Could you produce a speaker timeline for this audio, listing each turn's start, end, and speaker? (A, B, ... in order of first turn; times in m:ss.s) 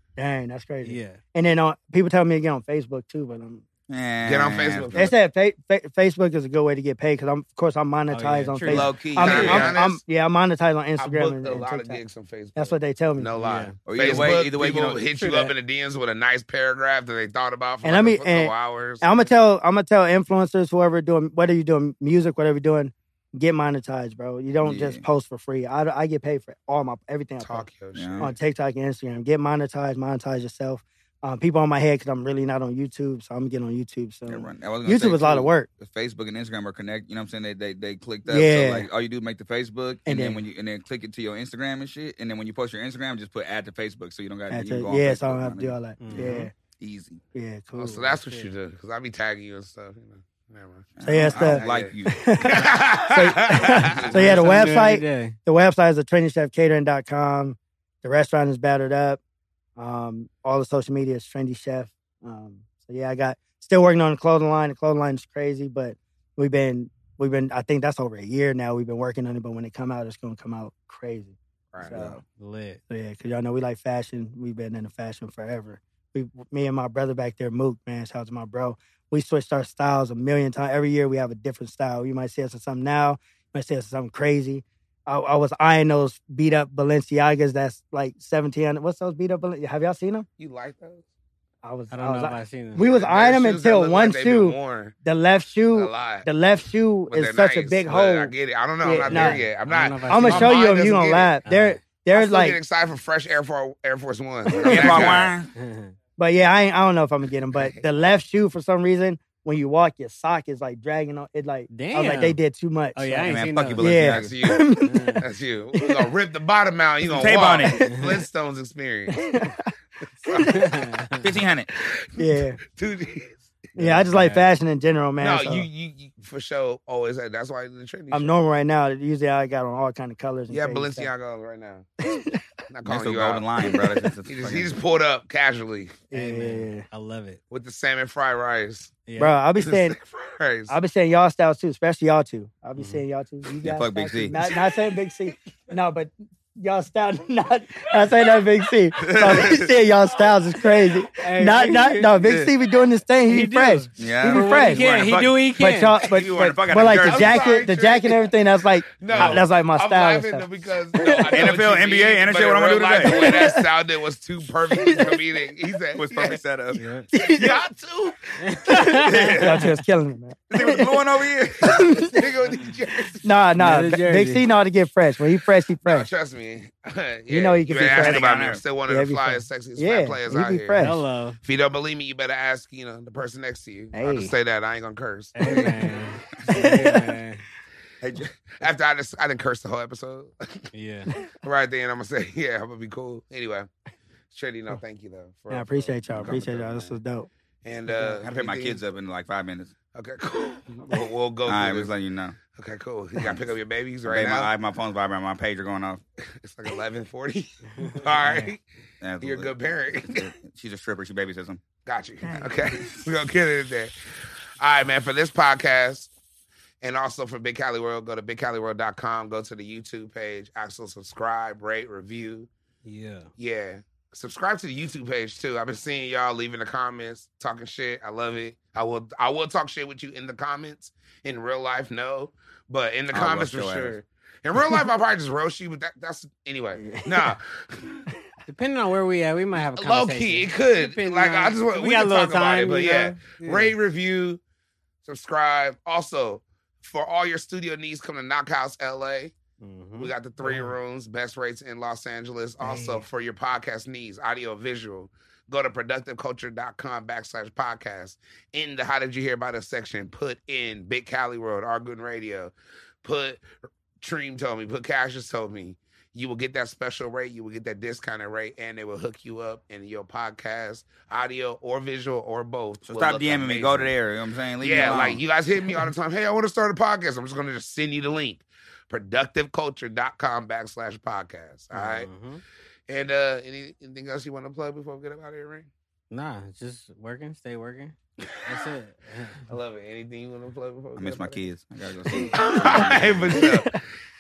0:00.2-0:03.6 A
0:00.8-0:01.2 B
0:03.9-0:05.1 C
0:04.2-0:05.1 D
0:04.9-0:12.0 A
0:08.1-0:09.6 B
0:08.6-0:09.7 C
0:09.2-0:10.0 D
0:11.0-0:19.3 D
0:12.6-0:13.3 A
0:13.4-0:14.3 B
0:13.8-0:15.0 C
0:15.2-0:15.5 B
0:17.8-0:27.7 A
0:24.6-0:25.0 C
0:27.4-0:28.3 D
0:27.9-0:28.3 C
0:28.2-0:35.7 A
0:34.3-0:47.2 C
0:38.3-0:38.9 A
0:40.1-0:40.4 A
0:44.5-0:46.5 A
0:46.0-0:46.5 B
0:47.3-0:48.1 A
0:47.8-0:54.4 D
0:48.1-0:48.5 B
0:51.0-0:52.3 C
0:51.0-0:59.2 A
0:53.8-0:54.4 C
0:54.1-0:55.4 B
0:59.8-1:12.2 A
1:11.9-1:12.2 C
1:12.4-1:12.8 B
1:12.9-1:30.3 A
1:30.4-1:31.1 D
1:31.6-1:39.4 A
1:31.9-1:32.8 B
1:32.8-1:35.0 D
1:35.7-1:36.3 D
1:37.1-1:41.3 D
1:39.0-1:40.6 B
1:40.1-1:42.6 A
1:41.5-1:41.8 B
1:42.1-1:45.3 D
1:44.5-1:45.3 A
1:44.6-1:45.5 C
1:45.6-1:45.9 B
1:46.2-1:55.2 A
1:47.6-1:47.8 D
1:51.7-1:52.4 B
1:53.0-1:53.9 B
1:53.3-1:54.4 C
1:54.0-1:54.6 D
1:54.8-1:55.2 B
1:55.2-1:59.2 D
1:55.8-1:56.1 A
1:57.0-1:57.8 C
1:57.6-1:58.1 A
1:59.1-1:59.7 A
2:00.2-2:00.8 A
2:00.3-2:00.5 D
2:00.5-2:01.3 B
2:01.2-2:01.7 C
2:01.9-2:03.4 D
2:02.1-2:02.6 A
2:03.8-2:05.7 A
2:03.9-2:04.5 B
2:05.2-2:08.3 D
2:08.1-2:11.1 A
2:10.5-2:11.9 D
2:12.0-2:12.4 A
2:12.7-2:13.4 D
2:12.9-2:14.7 C
2:13.7-2:14.1 A
2:14.3-2:16.0 D
2:16.1-2:16.8 A
2:16.1-2:17.4 B
2:17.5-2:19.0 D
2:19.1-2:19.3 B
2:19.2-2:20.0 A
2:19.6-2:20.8 D
2:20.7-2:34.8 A
2:22.8-2:23.0 B
2:23.6-2:24.4 C
2:29.0-2:29.7 C
2:31.2-2:32.3 B
2:32.2-2:32.5 C
2:33.3-2:36.0 B
2:34.0-2:35.5 C
2:35.6-2:41.5 A
2:36.0-2:37.4 C
2:36.8-2:38.3 D
2:39.0-2:46.4 D
2:39.1-2:39.4 B
2:41.3-2:43.3 C
2:43.0-2:43.6 A
2:44.7-2:45.2 A
2:46.0-2:46.8 C
2:46.8-2:47.1 B
2:47.1-2:47.6 A
2:47.1-2:48.2 D
2:48.4-2:49.7 B
2:48.6-2:50.9 A
2:49.0-2:49.7 C
2:50.5-2:52.2 C
2:51.6-2:52.2 A
2:52.1-2:53.2 D
2:53.2-2:56.1 A
2:53.6-2:54.4 B
2:55.9-3:00.8 D
2:57.3-2:58.3 A
2:57.7-2:58.6 C
2:58.9-3:01.0 A
3:00.8-3:01.4 B
3:01.4-3:05.9 D
3:03.9-3:04.3 A
3:05.4-3:07.4 B
3:05.4-3:05.7 A
3:06.5-3:07.1 A
3:08.0-3:08.3 C
3:08.5-3:10.7 D
3:10.7-3:11.1 B
3:11.4-3:13.7 D
3:14.3-3:17.0 D
3:15.5-3:17.3 A
3:17.6-3:18.8 D
3:17.9-3:18.2 A
3:18.2-3:19.7 C
3:19.9-3:21.9 D
3:21.5-3:22.4 C
3:22.5-3:24.5 D
3:24.1-3:26.0 C
3:26.3-3:28.6 D
3:29.0-3:29.5 C
3:29.2-3:30.3 D
3:30.1-3:31.6 C
3:31.8-3:33.9 D
3:34.6-3:36.1 D
3:36.8-3:42.5 D
3:42.8-3:43.3 B
3:43.4-3:58.0 D
3:53.1-3:54.0 C
3:56.8-3:57.4 A
3:58.5-4:03.8 B
3:59.6-4:04.4 D
4:05.0-4:09.4 D
4:09.6-4:10.7 B
4:10.0-4:22.5 D
4:12.7-4:13.0 B
4:23.0-4:23.4 D
4:24.0-4:33.9 D
4:32.8-4:35.2 C
4:34.6-4:42.1 D
4:41.7-4:42.4 B
4:42.9-4:45.7 D
4:46.1-4:49.4 B
4:49.5-4:51.4 D
4:51.0-4:53.5 C
4:52.1-4:53.8 D
4:53.3-4:53.8 A